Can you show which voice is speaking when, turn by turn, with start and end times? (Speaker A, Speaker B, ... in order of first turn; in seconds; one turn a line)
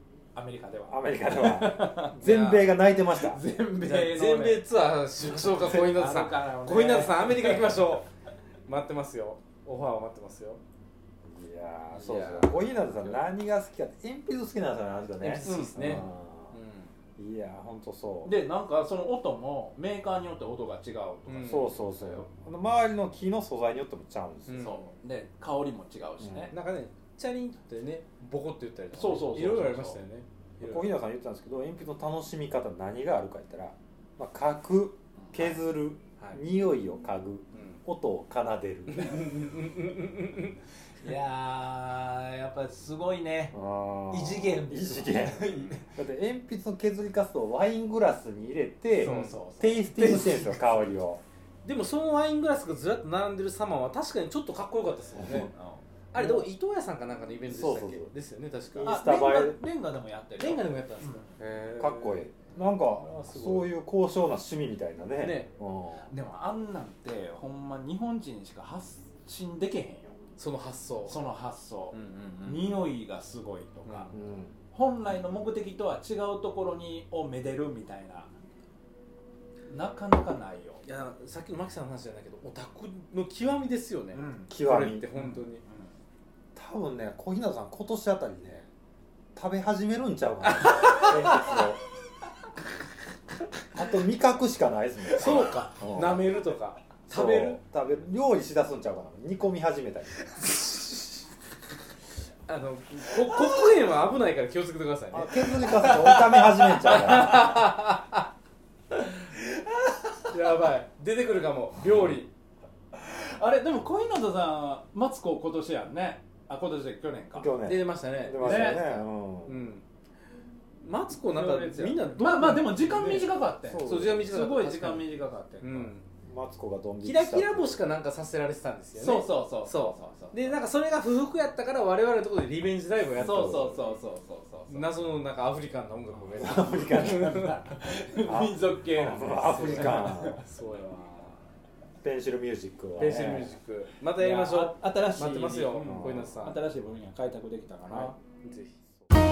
Speaker A: 0.3-2.2
Speaker B: 0.9-3.4
Speaker C: 2.2-2.8
Speaker A: 3.2-4.7
Speaker C: 3.8-8.1
Speaker A: 5.2-7.9
Speaker C: 8.7-10.6
Speaker B: 11.2-16.6
Speaker C: 11.9-13.2
Speaker C: 15.2-16.9
Speaker A: 15.4-16.1
Speaker B: 17.2-18.3
Speaker A: 18.2-22.3
Speaker C: 21.3-21.8
Speaker B: 21.4-24.6
Speaker C: 24.5-24.9
Speaker A: 24.6-26.5
Speaker B: 26.2-26.5
Speaker C: 26.5-30.9
Speaker A: 28.9-30.0
Speaker B: 30.6-39.3
Speaker A: 35.2-35.5
Speaker C: 37.5-37.8
Speaker C: 38.9-40.6
Speaker A: 41.0-43.6
Speaker B: 43.5-51.2
Speaker A: 44.1-45.9
Speaker A: 49.0-50.9
Speaker C: 49.0-49.4
Speaker C: 51.6-55.5
Speaker B: 55.2-55.5
Speaker A: 55.2-55.8
Speaker C: 56.1-59.2
Speaker B: 56.1-56.5
Speaker B: 57.5-58.1
Speaker B: 58.7-59.6
Speaker A: 58.8-61.4
Speaker C: 60.4-63.7
Speaker B: 61.8-66.1
Speaker C: 65.2-65.5
Speaker A: 66.1-70.2
Speaker C: 70.4-71.3
Speaker A: 71.0-74.1
Speaker C: 71.9-72.9
Speaker C: 73.8-74.1
Speaker B: 74.1-74.5
Speaker A: 74.7-78.3
Speaker A: 79.7-80.8
Speaker C: 80.8-85.6
Speaker A: 84.1-84.5
Speaker B: 84.5-85.1
Speaker A: 85.1-85.9
Speaker B: 86.5-88.7
Speaker B: 89.3-91.8
Speaker C: 90.5-91.3
Speaker A: 90.8-91.3
Speaker B: 93.7-96.3
Speaker C: 95.1-97.6
Speaker B: 97.1-100.3
Speaker C: 102.5-106.0
Speaker B: 105.1-107.5
Speaker A: 105.7-107.6
Speaker C: 106.8-108.1
Speaker A: 110.1-110.4
Speaker C: 110.3-112.3
Speaker A: 112.9-117.5
Speaker B: 117.3-119.6
Speaker C: 117.6-119.8
Speaker A: 118.4-119.0
Speaker C: 120.8-126.1
Speaker A: 121.3-125.9
Speaker B: 123.6-124.3
Speaker B: 126.2-127.9
Speaker C: 127.0-134.0
Speaker A: 128.9-130.6
Speaker A: 133.2-134.9
Speaker B: 133.2-133.6
Speaker C: 134.7-137.5
Speaker B: 136.4-137.4
Speaker A: 136.4-140.4
Speaker B: 138.2-140.4
Speaker C: 139.4-141.4
Speaker B: 142.0-143.6
Speaker C: 143.0-146.6
Speaker A: 144.2-148.2
Speaker B: 145.8-146.4
Speaker C: 147.8-148.8